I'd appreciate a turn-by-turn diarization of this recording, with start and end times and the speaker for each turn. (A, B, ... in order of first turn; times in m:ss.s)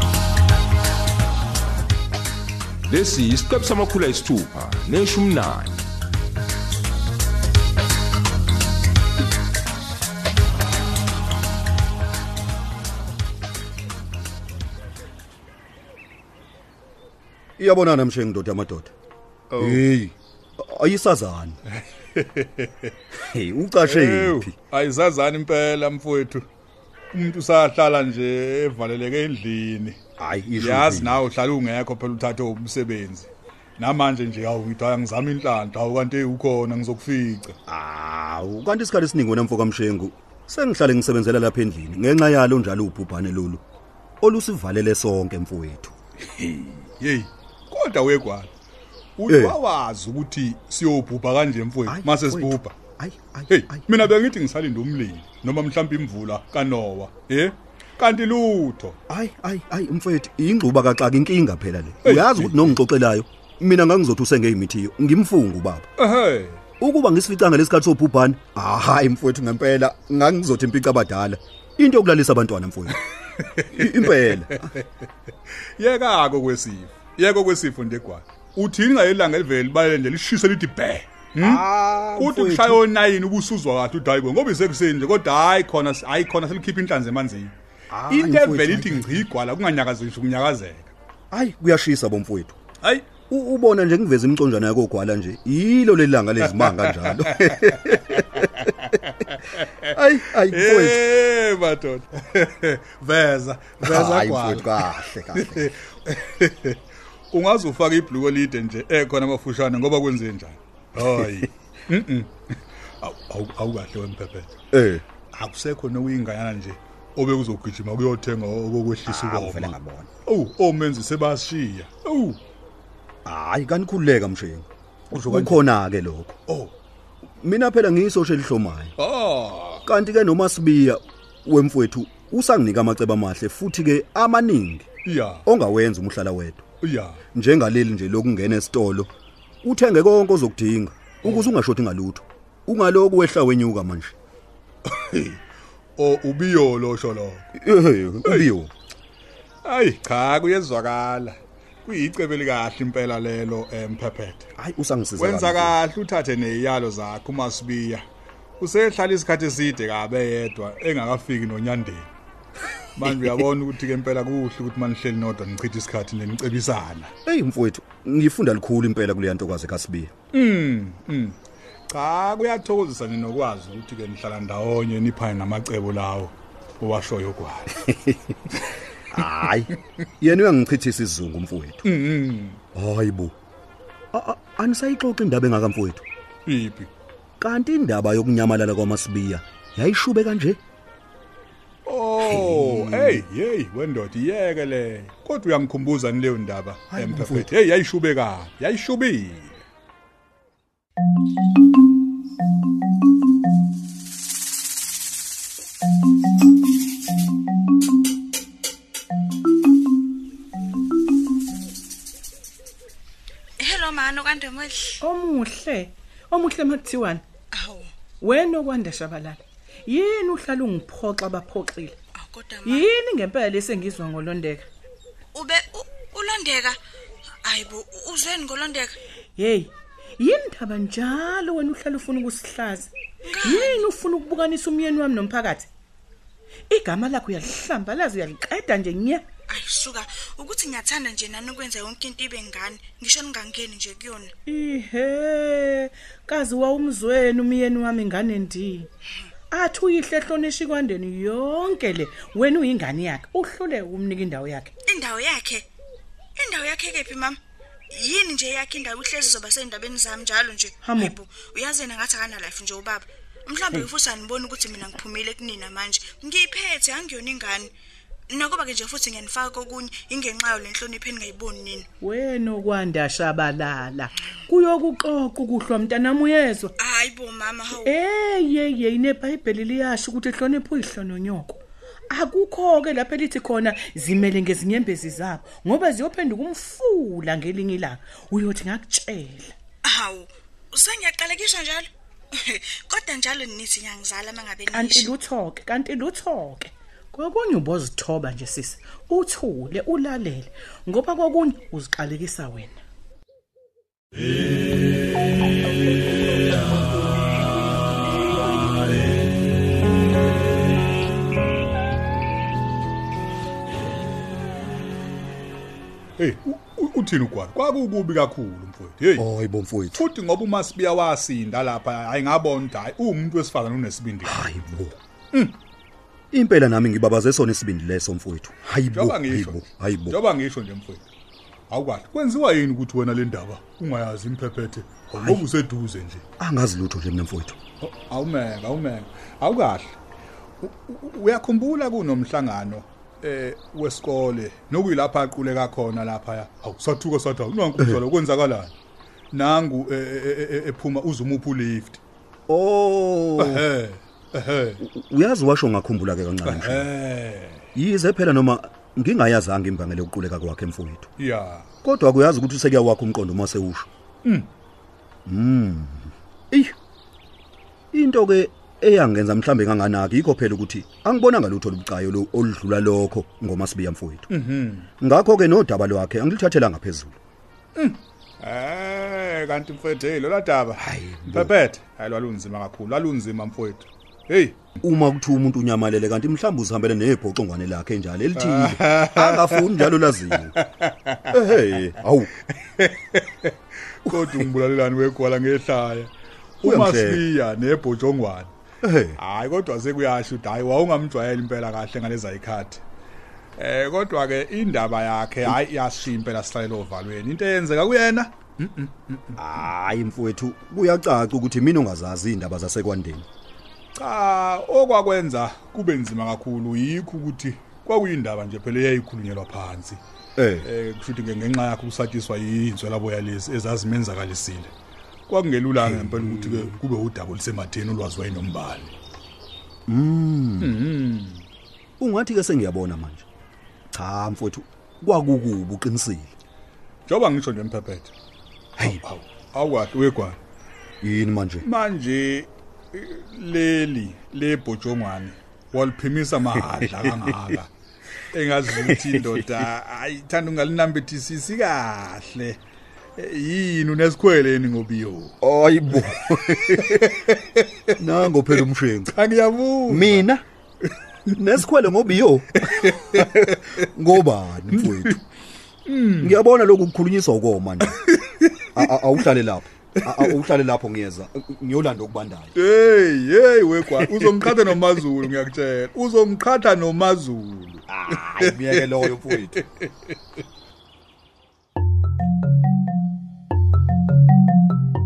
0:02.9-0:05.8 A
0:17.6-0:18.9 B
0:19.5-0:19.8 C
0:19.6-0:21.6 B
0:21.8-0:22.9 C
0:23.1-0:24.5 B
0:23.8-0:26.4 C
0:27.1-0:30.0 C
0:30.2-0:31.2 B
0:30.6-0:37.6 C
0:37.7-0:43.6 B
0:44.2-0:45.9 B
0:46.2-0:48.5 C
0:49.2-0:52.8 C
0:49.3-0:49.6 B
0:51.9-0:53.9 B
0:53.5-0:59.0 C
0:59.1-1:05.9 B
1:02.0-1:02.8 C
1:06.0-1:06.6 C
1:06.8-1:13.0 B
1:13.3-1:14.8 C
1:13.7-1:14.6 B
1:15.8-1:21.6 C
1:21.4-1:22.8 B
1:22.2-1:27.5 C
1:27.9-1:29.2 B
1:28.1-1:30.9 C
1:31.3-1:32.6 B
1:32.8-1:33.2 C
1:33.3-1:38.7 B
1:36.5-1:46.8 C
1:39.9-1:41.0 B
1:43.8-1:45.7 B
1:47.3-1:54.5 C
1:51.2-1:51.4 B
1:54.7-1:55.0 B
1:55.3-2:02.4 C
1:59.0-2:00.1 B
2:03.2-2:06.4 B
2:05.1-2:05.7 C
2:06.5-2:06.7 C
2:07.4-2:08.9 B
2:09.0-2:09.8 C
2:09.8-2:14.9 B
2:15.0-2:15.4 C
2:15.4-2:16.6 B
2:16.8-2:17.2 C
2:17.3-2:19.1 B
2:19.6-2:24.1 B
2:24.8-2:25.4 C
2:26.0-2:27.4 C
2:27.5-2:28.7 B
2:29.6-2:34.5 C
2:34.6-2:35.8 B
2:35.2-2:38.0 C
2:38.6-2:42.1 C
2:43.0-2:47.1 C
2:47.2-2:50.1 B
2:50.3-2:51.4 C
2:51.9-2:57.9 C
2:59.1-3:01.9 B
3:01.8-3:02.6 C
3:02.7-3:03.3 B
3:04.1-3:06.0 B
3:06.4-3:06.9 C
3:07.4-3:10.6 B
3:11.8-3:19.6 C
3:12.2-3:13.2 B
3:16.9-3:17.5 B
3:33.6-3:35.0 D
3:35.0-3:37.2 E
3:37.5-3:37.9 D
3:38.2-3:42.0 E
3:42.2-3:42.9 D
3:42.6-3:44.7 E
3:45.3-3:46.8 D
3:47.4-3:49.0 D
3:49.4-3:52.9 E
3:53.2-3:53.8 D
3:53.4-3:55.7 E
3:56.7-3:59.2 E
3:59.5-4:04.3 D
4:04.4-4:08.9 E
4:09.5-4:14.7 E
4:14.9-4:15.6 D
4:16.4-4:17.4 D
4:17.9-4:27.7 D
4:20.8-4:21.1 E
4:28.3-4:31.9 D
4:32.0-4:36.7 E
4:36.8-4:37.9 D
4:37.8-4:41.6 E
4:42.1-4:49.5 E
4:49.8-4:55.1 D
4:54.7-5:02.8 E
5:16.2-5:19.3 C
5:19.2-5:20.0 B
5:20.0-5:24.5 C
5:24.2-5:25.0 B
5:26.3-5:30.2 B
5:28.9-5:31.0 C
5:31.7-5:36.2 C
5:35.2-5:35.4 B
5:36.4-5:37.6 B
5:37.8-5:40.0 C
5:40.6-5:48.7 C
5:49.3-5:52.0 C
5:52.5-5:53.6 B
5:53.4-5:54.8 C
5:54.8-5:56.9 B
5:56.4-5:57.6 C
5:57.7-6:01.1 B
6:01.2-6:01.7 C
6:01.8-6:03.9 B
6:05.2-6:06.7 B
6:07.9-6:14.3 B
6:14.3-6:14.9 C
6:15.0-6:17.2 B
6:17.8-6:24.6 C
6:20.8-6:21.5 B
6:24.8-6:30.5 B
6:28.4-6:29.9 C
6:30.5-6:31.4 C
6:31.3-6:32.3 B
6:32.5-6:36.1 C
6:34.1-6:34.4 B
6:36.6-6:38.5 C
6:36.6-6:37.2 B
6:38.8-6:39.2 B
6:39.2-6:42.8 C
6:43.6-6:49.4 C
6:49.4-6:53.2 B
6:54.0-7:00.0 C
7:00.4-7:00.7 B
7:00.6-7:04.7 C
7:05.3-7:08.9 C
7:05.8-7:06.7 B
7:09.9-7:10.8 B
7:10.6-7:11.4 C
7:12.0-7:13.2 B
7:13.9-7:16.3 B
7:17.1-7:18.1 C
7:18.8-7:20.4 C
7:21.0-7:21.6 B
7:21.6-7:27.7 C
7:28.3-7:32.6 C
7:28.7-7:29.3 B
7:33.2-7:35.4 C
7:35.4-7:37.1 B
7:36.6-7:37.9 C
7:38.0-7:39.1 B
7:39.1-7:40.2 C
7:39.9-7:40.4 B
7:41.4-7:45.1 B
7:42.6-7:43.8 C
7:44.8-7:45.2 C
7:45.8-7:46.3 C
7:46.2-7:48.0 B
7:48.0-7:48.8 C
7:48.7-7:52.6 B
7:52.6-8:00.1 C
7:54.0-7:54.5 B
7:57.9-7:59.6 B